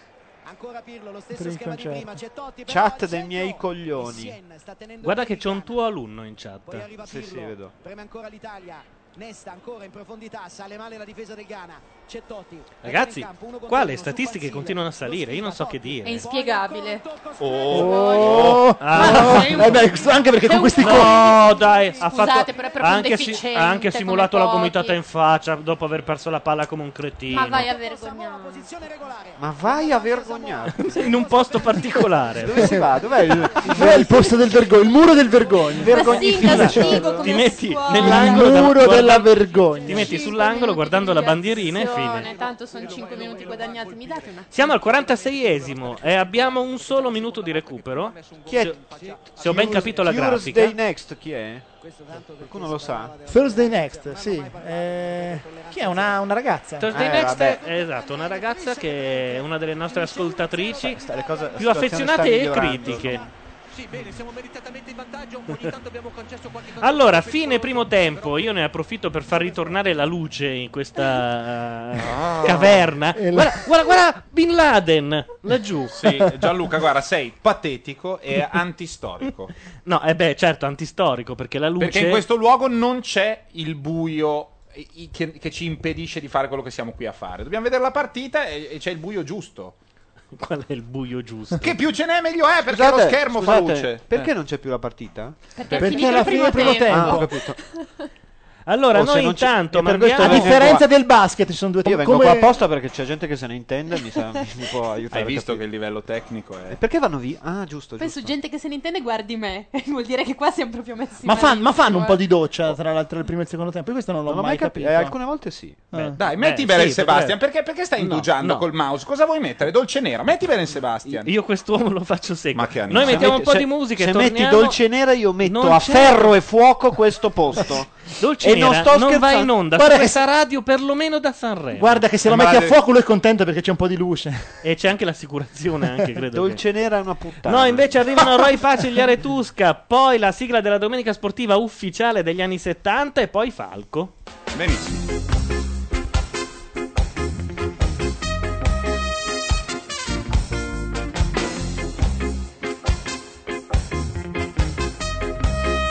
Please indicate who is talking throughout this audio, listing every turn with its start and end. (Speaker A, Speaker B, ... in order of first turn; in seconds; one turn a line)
Speaker A: 0.4-5.8
Speaker B: 1.3-2.2
Speaker C: 2.7-4.4
Speaker D: 5.0-6.9
Speaker A: 6.7-23.4
Speaker C: 7.0-7.8
Speaker D: 12.8-16.3
Speaker E: 16.0-17.1
Speaker F: 17.4-18.7
Speaker E: 17.7-25.0
Speaker B: 17.7-21.7
Speaker D: 18.8-20.1
Speaker D: 20.7-27.7
Speaker E: 27.3-28.7
Speaker A: 27.4-36.3
Speaker C: 29.4-31.3
Speaker D: 30.7-32.7
Speaker C: 32.4-34.3
Speaker B: 32.6-36.9
Speaker C: 35.7-37.4
Speaker E: 35.8-38.9
Speaker D: 36.4-42.3
Speaker B: 37.9-40.2
Speaker G: 38.6-50.4
Speaker A: 39.5-40.4
Speaker E: 39.8-44.5
Speaker A: 42.8-43.1
Speaker D: 44.5-48.7
Speaker C: 48.5-51.7
Speaker A: 49.0-49.8
Speaker D: 49.4-50.8
Speaker A: 51.8-56.4
Speaker C: 52.4-53.2
Speaker B: 53.3-56.9
Speaker D: 56.8-61.0
Speaker C: 56.9-57.6
Speaker A: 56.9-63.3
Speaker C: 60.8-63.3
Speaker D: 61.6-63.2
Speaker G: 63.7-69.9
Speaker D: 66.8-76.0
Speaker F: 72.0-73.0
Speaker B: 73.1-73.7
Speaker F: 75.9-79.5
Speaker D: 79.8-82.3
Speaker F: 81.8-89.8
Speaker D: 90.3-91.8
Speaker F: 91.6-94.3
Speaker C: 92.6-97.6
Speaker E: 95.6-98.1
Speaker B: 95.7-97.3
Speaker D: 98.7-100.7
Speaker C: 98.9-100.9
Speaker B: 100.2-102.6
Speaker C: 101.8-105.9
Speaker F: 105.1-106.8
Speaker C: 106.7-108.4
Speaker E: 108.0-112.3
Speaker B: 111.2-115.2
Speaker C: 114.3-115.9
Speaker B: 115.9-116.2
Speaker D: 115.9-118.7
Speaker F: 116.2-121.3
Speaker D: 121.0-126.4
Speaker F: 122.5-123.5
Speaker C: 123.0-129.7
Speaker D: 128.2-132.1
Speaker B: 129.8-130.2
Speaker B: 131.8-134.6
Speaker F: 132.2-132.8
Speaker D: 134.6-136.6
Speaker C: 136.3-138.2
Speaker D: 137.4-144.1
Speaker F: 144.5-145.0